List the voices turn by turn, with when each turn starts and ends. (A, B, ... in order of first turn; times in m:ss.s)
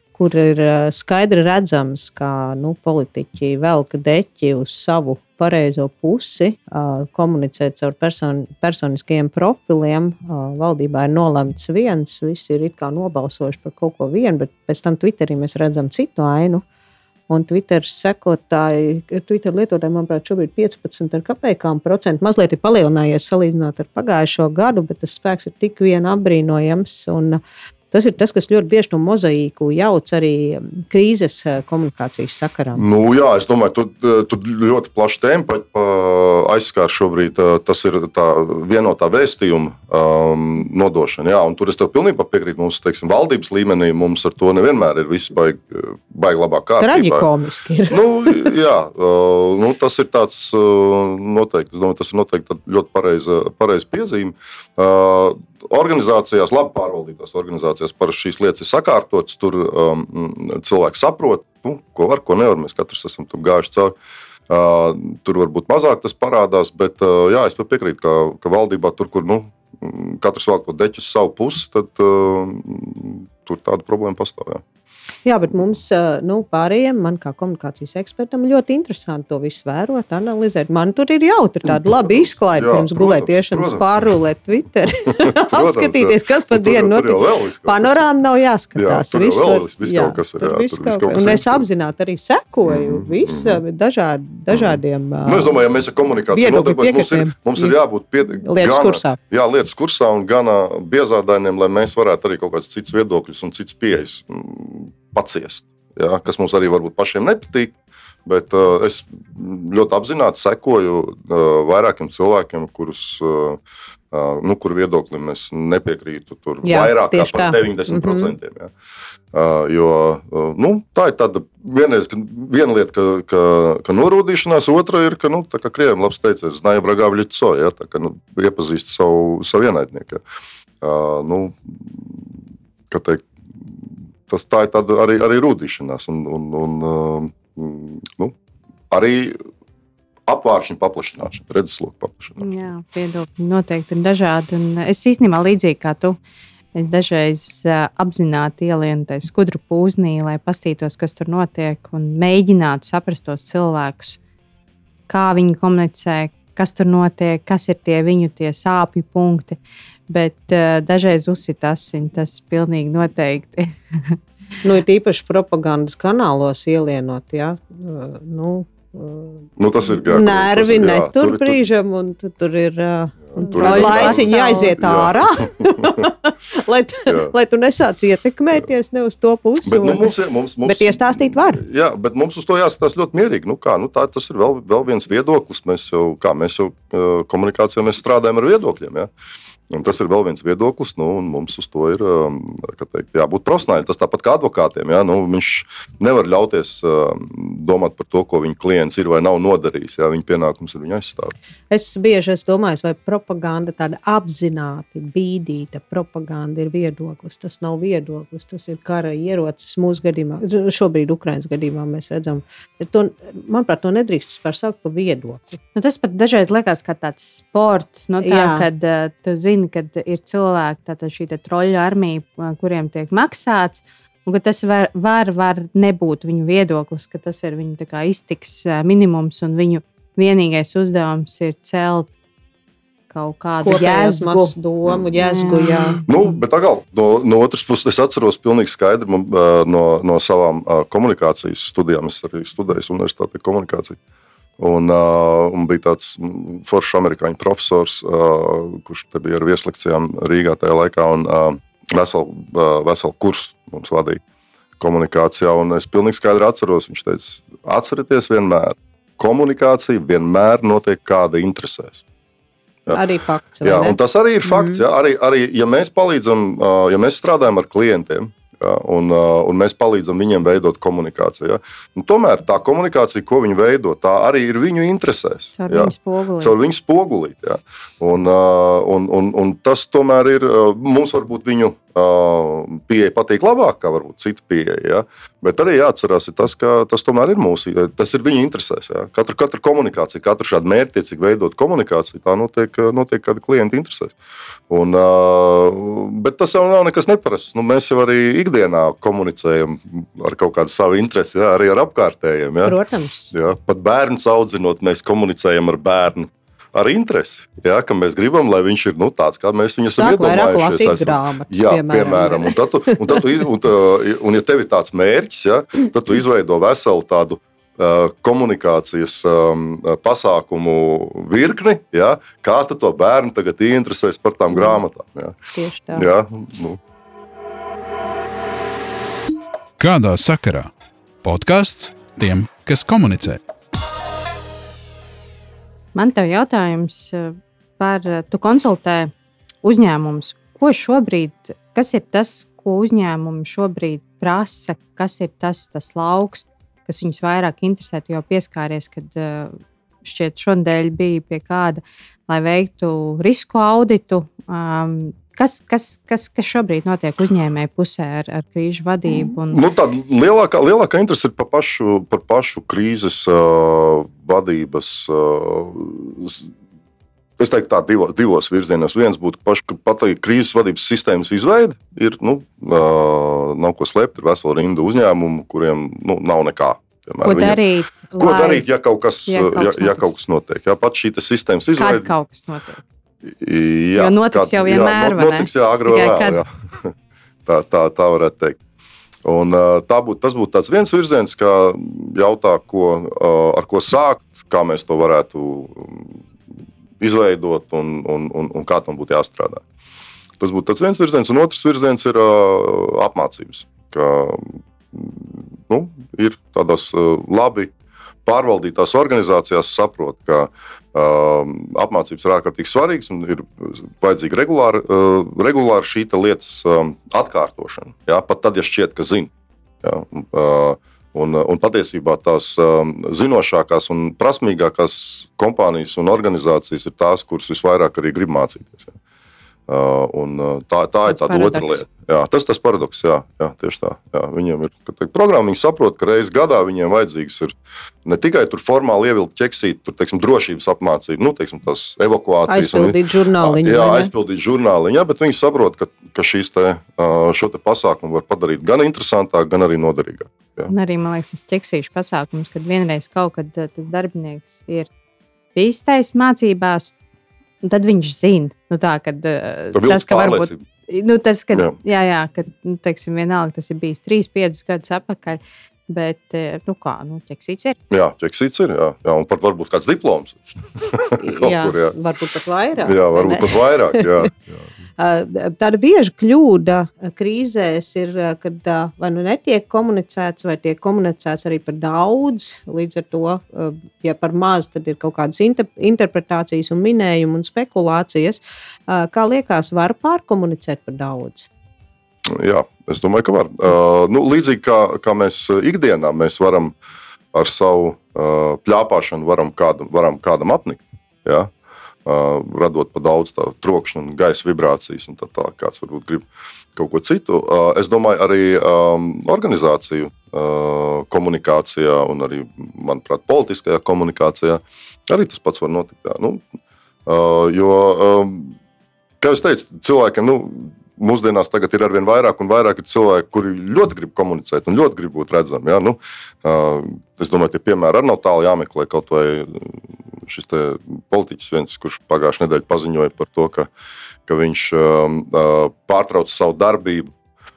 0:00.1-0:16.6 A
0:17.3-0:32.8 A
0:32.7-0:47.3 B
0:46.8-0:48.5 A
0:47.9-1:03.9 B
1:04.5-1:14.6 B
1:15.2-1:35.6 A
1:21.7-1:23.8 B
1:25.1-1:28.0 B
1:28.8-1:31.6 B
1:32.6-1:33.6 B
1:34.5-1:47.7 B
1:36.3-1:37.8 A
1:38.4-1:39.2 A
1:48.2-1:53.6 B
1:54.1-1:58.7 B
1:56.6-1:58.3 A
1:59.3-2:10.2 B
2:10.8-2:12.2 B
2:12.9-2:13.8 B
2:14.3-2:18.3 B
2:18.9-2:19.4 B
2:20.3-2:22.4 B
2:22.4-2:26.2 C
2:26.7-2:34.2 C
2:35.1-2:44.2 C
2:44.6-2:49.5 A
2:49.6-2:51.6 B
2:50.0-3:00.1 A
2:53.4-2:54.7 C
2:53.4-2:56.0 B
2:57.1-2:57.3 B
2:59.6-3:09.1 B
3:00.6-3:01.6 A
3:09.7-3:21.3 B
3:21.7-3:35.6 A
3:35.7-3:52.1 C
3:38.2-3:38.6 A
3:53.1-3:54.6 C
3:53.6-3:56.0 A
3:55.2-3:56.3 C
3:56.0-4:04.0 B
4:04.6-4:14.2 B
4:14.8-4:22.0 B
4:22.9-4:24.8 A
4:23.6-4:54.1 B
4:35.6-4:36.5 C
4:54.7-5:02.8 B
5:02.6-5:03.3 A
5:03.3-5:25.4 B
5:10.0-5:13.2 A
5:25.5-5:26.1 A
5:25.9-5:26.8 B
5:29.8-5:30.7 D
5:31.2-5:33.4 D
5:35.9-5:59.6 C
5:59.1-6:06.5 B
6:07.4-6:17.6 B
6:17.2-6:18.6 C
6:18.2-6:22.1 B
6:19.3-6:20.1 C
6:21.7-6:22.8 C
6:23.2-6:26.9 B
6:23.9-6:26.4 C
6:27.4-6:28.6 B
6:29.2-6:36.2 B
6:37.0-6:39.6 B
6:40.4-6:47.7 B
6:48.2-6:59.3 B
6:59.8-7:09.0 B
7:09.7-7:17.5 B
7:11.0-7:11.8 C
7:18.0-7:30.7 B
7:22.5-7:24.1 A
7:30.7-7:34.9 C
7:35.5-7:36.9 C
7:37.6-7:47.8 C
7:39.7-7:40.6 B
7:47.9-7:51.9 B
7:51.2-7:54.3 A
7:52.8-7:54.6 B
7:55.0-8:11.5 A
8:12.2-8:16.7 B
8:17.3-8:21.5 B
8:22.0-8:36.5 B
8:37.0-8:38.5 B
8:39.2-8:53.7 B
8:54.3-8:57.1 B